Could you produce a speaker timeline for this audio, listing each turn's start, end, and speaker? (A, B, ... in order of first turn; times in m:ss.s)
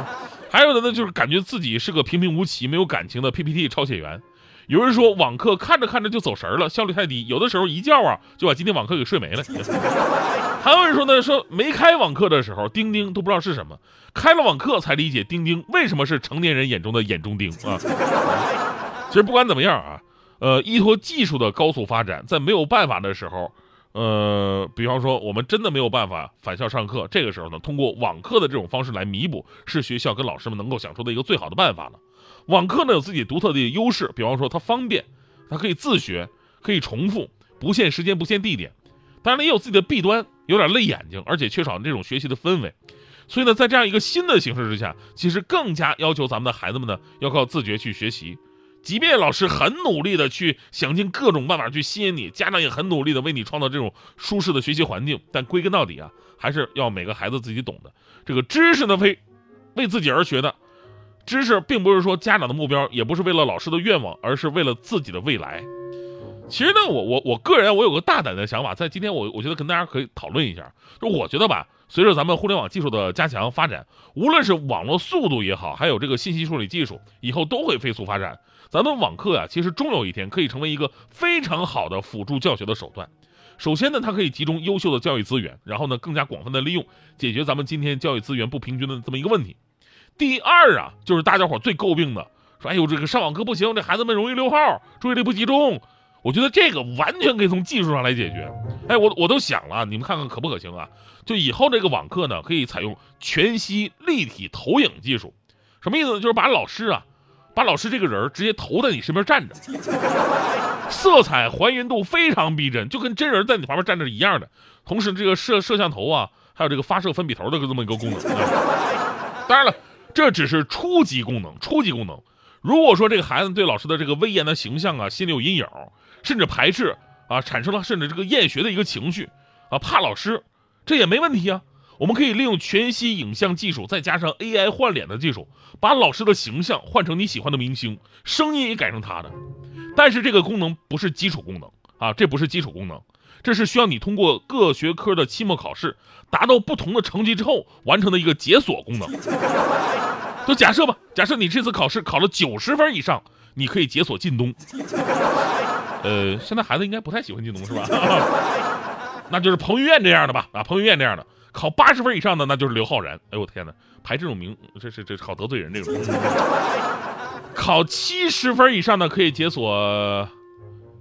0:00.5-0:09.7 A
0:10.6-0:18.4 A
0:19.1-0:42.7 A
0:43.3-0:59.2 A
0:59.7-1:00.6 A
1:01.2-1:05.7 A
1:06.5-1:29.6 A
1:30.2-1:49.6 A
1:50.9-1:58.5 A
1:59.5-2:19.3 A
2:19.9-2:29.1 A
2:30.4-2:34.6 A
2:36.0-2:38.4 A
2:39.3-2:46.4 A
2:47.5-2:50.3 A